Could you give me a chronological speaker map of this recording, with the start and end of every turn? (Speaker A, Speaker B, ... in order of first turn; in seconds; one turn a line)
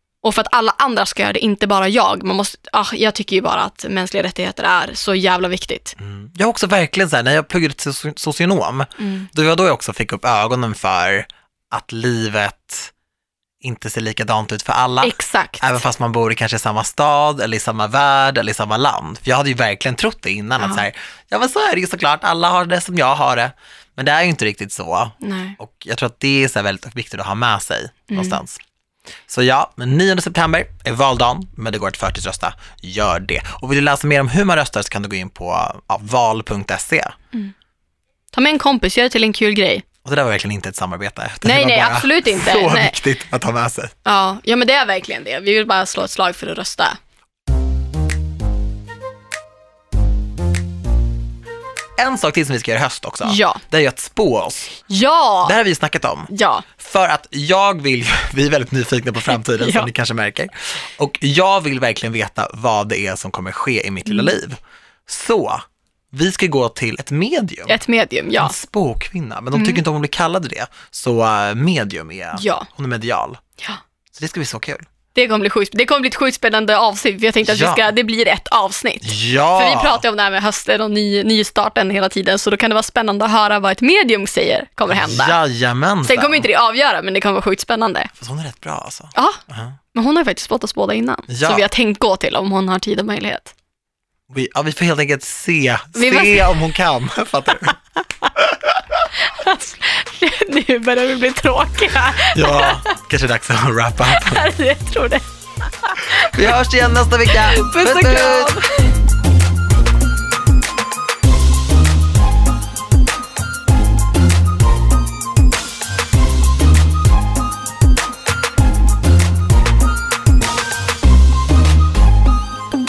Speaker A: 0.2-6.0
Speaker B: 6.0-12.9
Speaker A: 9.0-9.3
Speaker B: 13.6-28.6
Speaker A: 15.0-15.6
Speaker A: 20.6-20.8
Speaker A: 25.2-25.6
Speaker A: 28.1-28.4
Speaker B: 29.3-37.2
Speaker A: 38.3-39.9
Speaker B: 40.0-43.9
Speaker A: 41.4-43.0
Speaker A: 44.0-47.0
Speaker B: 52.0-54.8
Speaker A: 53.2-53.6
Speaker A: 54.9-55.5
Speaker B: 55.4-67.8
Speaker A: 56.3-56.7
Speaker A: 59.6-59.9
Speaker A: 67.7-68.5
Speaker B: 68.4-73.4
Speaker A: 69.5-69.8
Speaker A: 72.3-72.7
Speaker B: 74.1-74.8
Speaker A: 75.1-85.4
Speaker B: 77.4-77.9
Speaker B: 79.0-80.0
Speaker B: 84.9-86.5
Speaker A: 86.0-88.1
Speaker B: 88.2-89.8
Speaker A: 89.1-89.4
Speaker A: 89.9-93.5
Speaker B: 91.3-91.6
Speaker B: 94.3-97.8
Speaker A: 96.0-96.6
Speaker B: 98.4-98.7
Speaker A: 99.2-102.9
Speaker B: 102.3-104.4
Speaker A: 104.1-105.3
Speaker A: 105.8-106.6
Speaker B: 106.0-108.6
Speaker A: 107.3-109.0